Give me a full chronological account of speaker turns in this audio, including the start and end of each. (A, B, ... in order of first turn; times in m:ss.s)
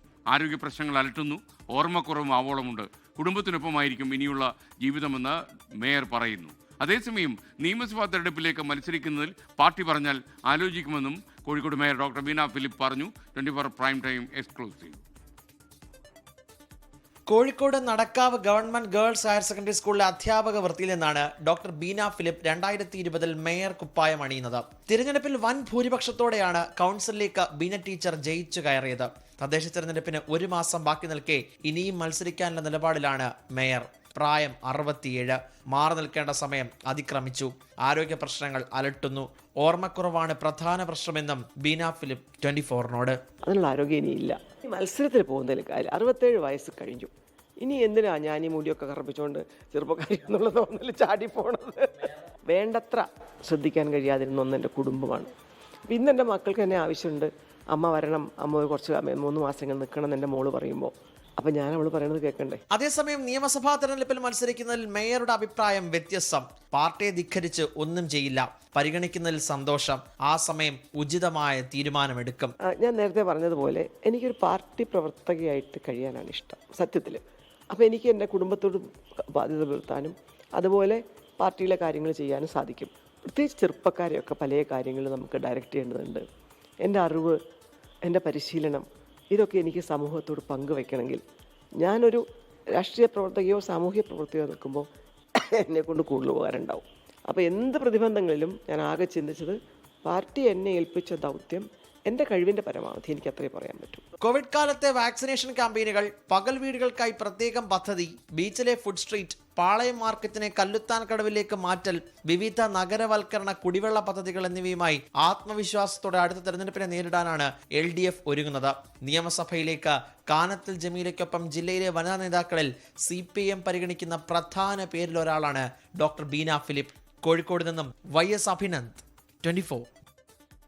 0:00.3-0:15.0 A
0:17.3-0:43.2 B
0:43.4-0:55.3 C
0:55.9-1:02.6 C
1:02.7-1:12.6 B
1:12.7-1:26.2 C
1:26.8-1:27.4 C
1:28.0-1:31.2 C
1:31.8-1:32.2 C
1:32.7-1:34.8 C
1:35.4-1:44.0 C
1:44.2-2:09.9 B